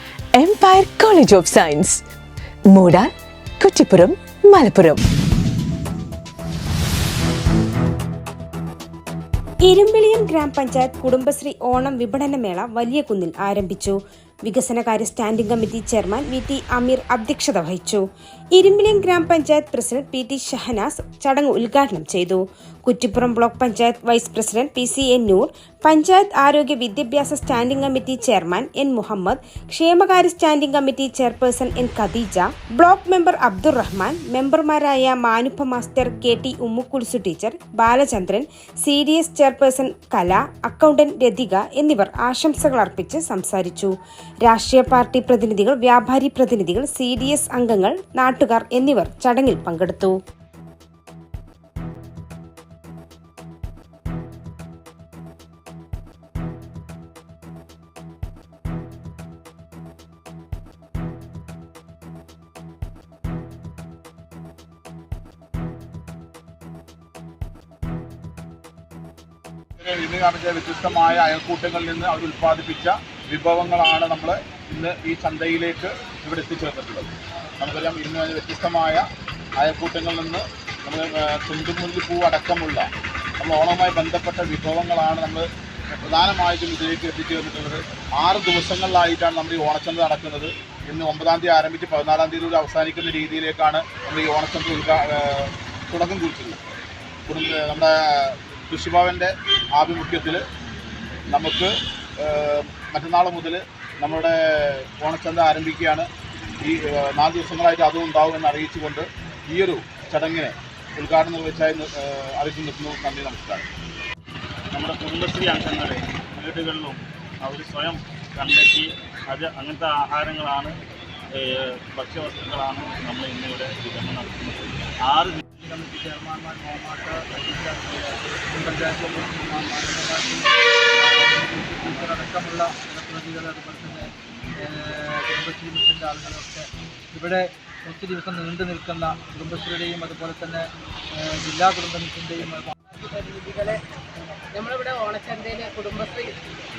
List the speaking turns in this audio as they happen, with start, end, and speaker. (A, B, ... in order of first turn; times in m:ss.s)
0:00.3-0:02.0 A
0:02.7-0:05.0 A
0:09.6-0:18.0 B
0:18.5-0:43.9 B
0:44.4-0:50.2 B
1:09.8-1:22.9 C
1:23.4-1:36.6 C
1:37.3-1:40.4 C
1:41.3-1:46.1 C
1:46.6-1:53.7 C
1:54.7-2:00.7 D
2:01.3-2:05.4 D
2:05.6-2:22.7 E
2:22.9-2:23.8 F
2:24.5-2:26.3 F